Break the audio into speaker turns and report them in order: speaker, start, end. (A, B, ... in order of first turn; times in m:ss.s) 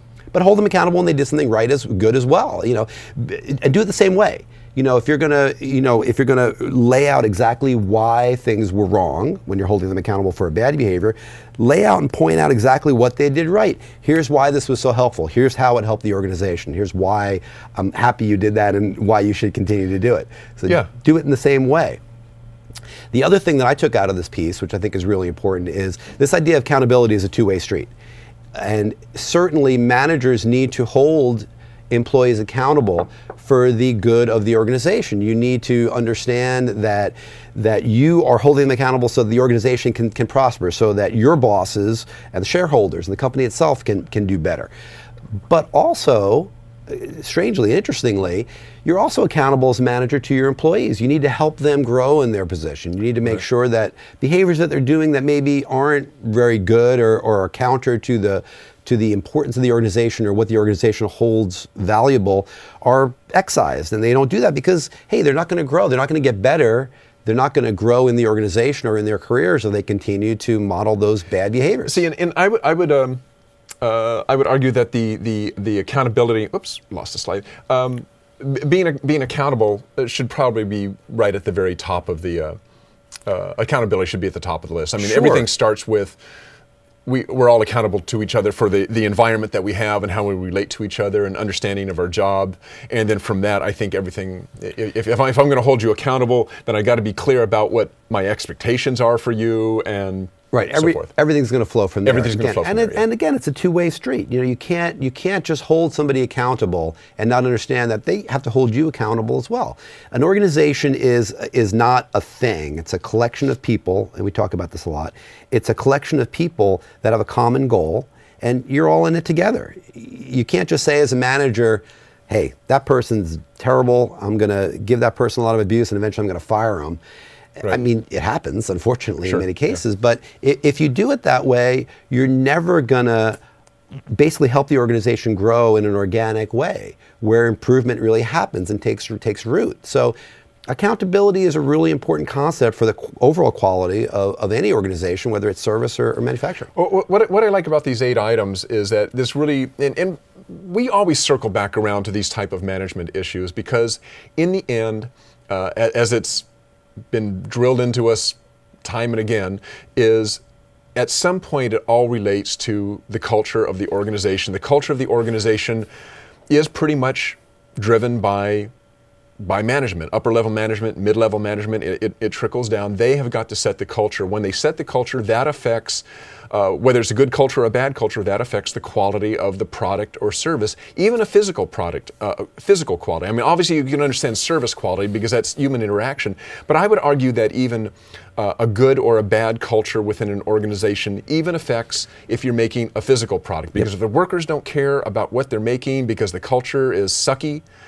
0:00.3-0:22.0 A
0:23.1-0:27.9 A
0:28.5-0:44.7 A
0:45.5-1:12.0 A
1:11.8-1:13.2 B
1:13.8-1:22.6 B
1:23.2-1:26.2 B
1:25.0-1:25.5 A
1:27.0-1:41.1 B
1:40.5-2:07.0 A
1:42.0-1:43.0 B
2:07.6-2:13.4 A
2:14.1-2:20.1 A
2:20.7-2:26.7 A
2:26.7-2:36.4 B
2:37.1-2:40.4 B
2:40.9-2:45.9 B
2:46.5-2:48.7 B
2:49.4-3:17.6 B